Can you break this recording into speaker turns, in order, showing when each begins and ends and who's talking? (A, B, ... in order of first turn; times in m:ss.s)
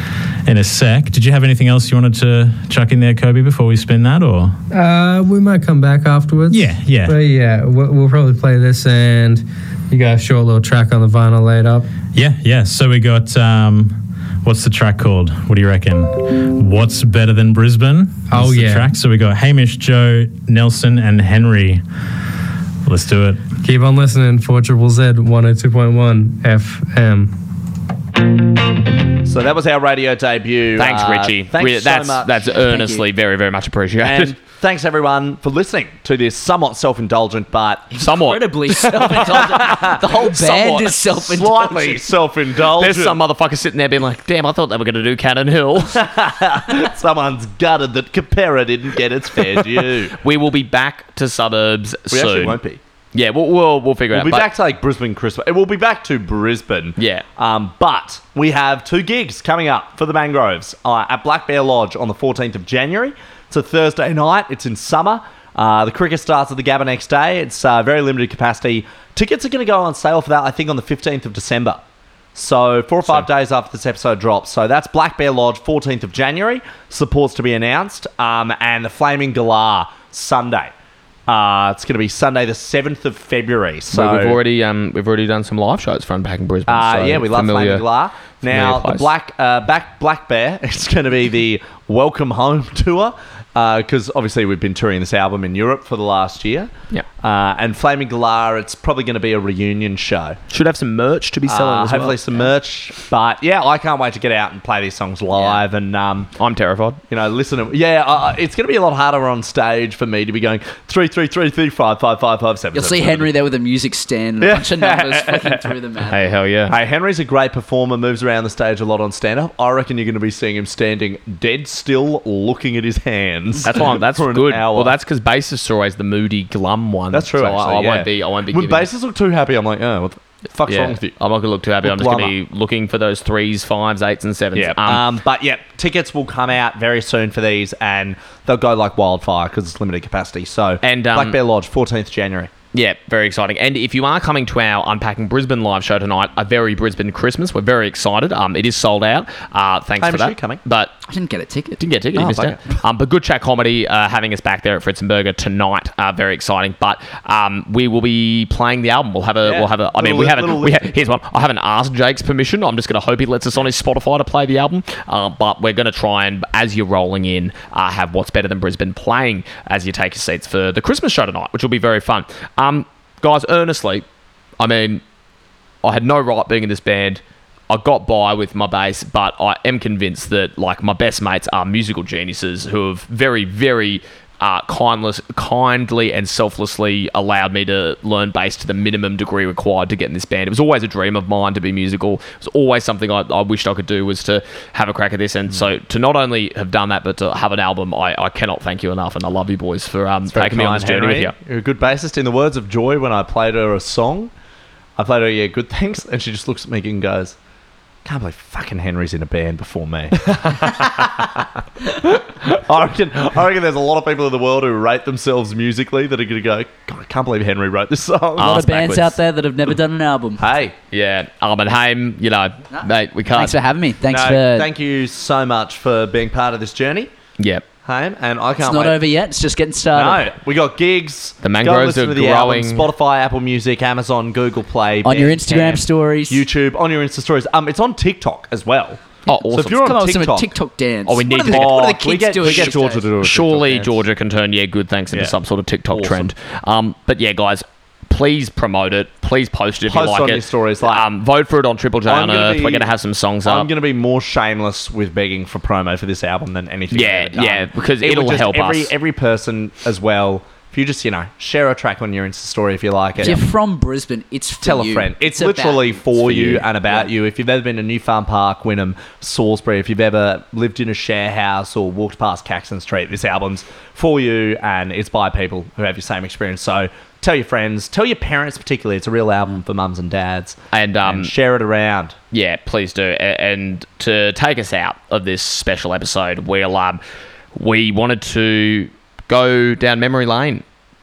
0:00.4-0:04.6 A
0:04.7-0:11.9 B
0:06.5-0:07.2 A
0:12.1-0:21.8 A
0:18.3-0:18.9 B
0:22.8-0:23.4 A
0:23.6-0:27.3 B
0:29.2-0:32.5 C
0:30.8-0:34.3 D
0:32.4-0:33.0 E
0:34.0-0:38.0 C
0:37.9-0:41.1 D
0:38.0-0:42.0 E
0:39.3-0:40.0 C
0:41.2-0:43.2 C
0:42.8-0:46.1 D
0:46.0-0:50.2 C
0:50.1-0:52.6 D
0:52.1-0:52.8 C
0:53.1-0:54.5 D
0:54.1-1:11.8 C
0:57.0-0:57.2 D
1:12.4-1:20.7 C
1:21.3-1:24.4 C
1:23.9-1:27.8 D
1:26.7-1:40.4 C
1:28.5-1:29.1 D
1:40.5-1:42.5 D
1:41.5-1:46.3 C
1:46.4-1:47.0 D
1:47.1-1:53.3 C
1:52.7-1:56.2 E
1:54.4-1:55.7 C
1:56.1-1:56.8 D
1:56.7-2:04.9 C
2:03.6-2:08.9 D
2:07.1-2:11.2 C
2:10.7-2:15.0 D
2:11.8-2:12.3 C
2:14.6-2:22.5 C
2:20.8-2:21.4 D
2:22.7-2:31.0 D
2:30.0-2:30.6 C
2:31.1-2:31.8 E
2:31.8-2:54.0 D
2:32.2-2:32.6 C
2:39.4-2:41.0 C
2:54.6-2:55.0 D
2:55.8-3:21.3 D
3:20.3-3:24.3 C
3:25.0-3:27.4 C
3:28.0-3:31.4 C
3:32.0-3:38.6 C
3:38.4-3:40.4 E
3:38.4-3:39.2 D
3:40.4-3:40.8 C
3:40.9-3:43.6 D
3:42.7-3:44.7 E
3:44.1-3:47.1 C
3:47.4-3:47.6 D
3:47.9-3:49.0 C
3:48.6-3:50.3 E
3:49.9-3:55.7 C
3:51.4-3:52.9 D
3:55.0-3:56.5 E
3:56.3-4:00.5 C
3:59.3-4:00.0 D
3:59.7-4:03.0 E
4:01.1-4:13.7 D
4:01.5-4:04.0 C
4:05.9-4:06.3 C
4:09.9-4:11.1 C
4:12.1-4:12.9 C
4:13.4-4:23.4 C
4:16.9-4:18.9 D
4:23.2-4:27.1 E
4:24.6-4:42.2 C
4:40.7-4:41.3 D
4:42.3-4:47.0 D
4:47.6-4:50.6 D